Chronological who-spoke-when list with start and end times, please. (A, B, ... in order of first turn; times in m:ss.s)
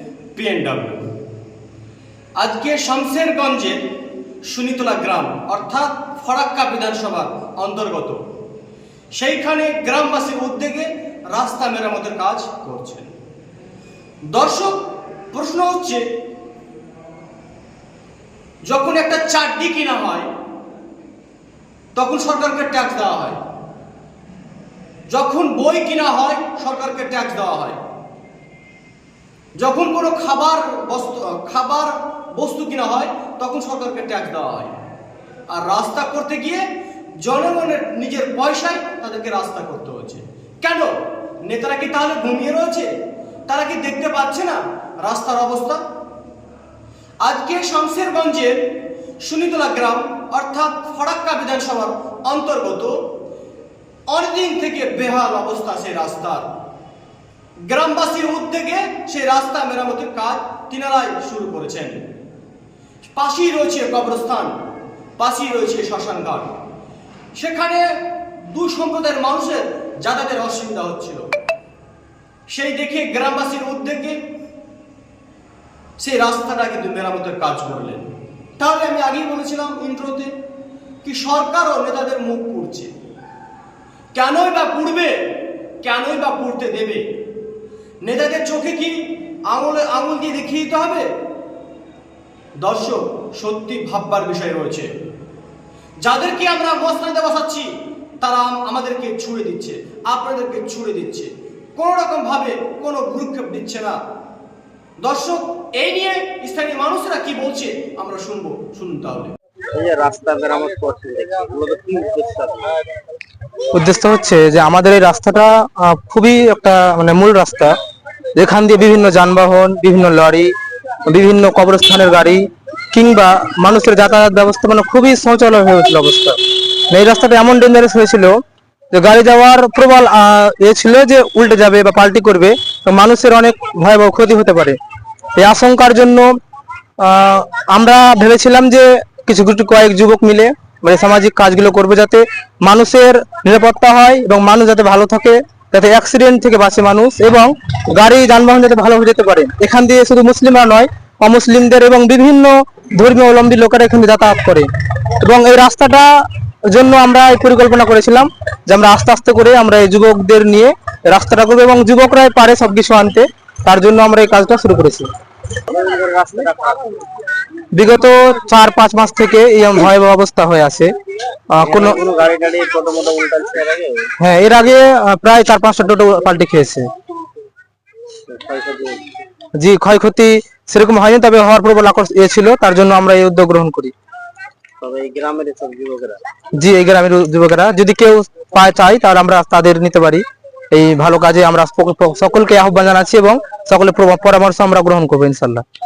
0:00.4-0:01.1 A
0:02.4-0:03.8 A
0:04.5-0:08.2 A
0:09.1-0:13.1 A
0:14.3-0:14.8 A
0:15.3-0:16.1 A
0:18.7-0:20.3 A
0:21.9-0:23.4 A
0:25.1-0:27.8 A
0:29.6-0:34.8 A
0:35.5-0:36.6 A
0:37.2-0:40.9 A
0:41.4-0:42.9 A
0:43.5-0:45.8 A
0:47.2-0:48.6 A
0:49.2-0:52.9 A
0:54.1-0:56.4 A
0:57.7-1:02.0 A
1:03.1-1:04.6 A
1:05.2-1:06.5 A
1:07.3-1:07.8 A
1:08.4-1:11.3 A
1:12.5-1:14.2 A
1:16.0-1:18.0 A
1:18.6-1:20.3 A
1:21.0-1:22.9 A
1:24.1-1:25.1 A
1:25.8-1:27.0 A
1:28.0-1:29.0 A
1:29.5-1:31.1 A
1:32.6-1:34.9 A
1:36.0-1:37.7 A
1:38.2-1:44.0 A
1:45.0-1:49.3 A
1:49.7-1:52.8 B
1:53.7-1:57.7 C
1:58.4-2:00.5 C
2:01.1-2:06.4 C
2:06.9-2:08.4 C
2:08.9-2:14.8 C
2:15.4-2:16.3 C
2:17.0-2:34.7 C
2:35.2-2:36.1 C
2:36.7-2:45.1 C
2:45.7-2:47.0 B
2:47.7-2:50.9 C
2:51.5-2:52.0 C
2:51.6-2:54.1 B
2:54.2-2:56.9 C
2:58.3-2:59.0 B
2:59.6-3:03.9 C
3:04.8-3:06.2 B
3:06.6-3:15.6 C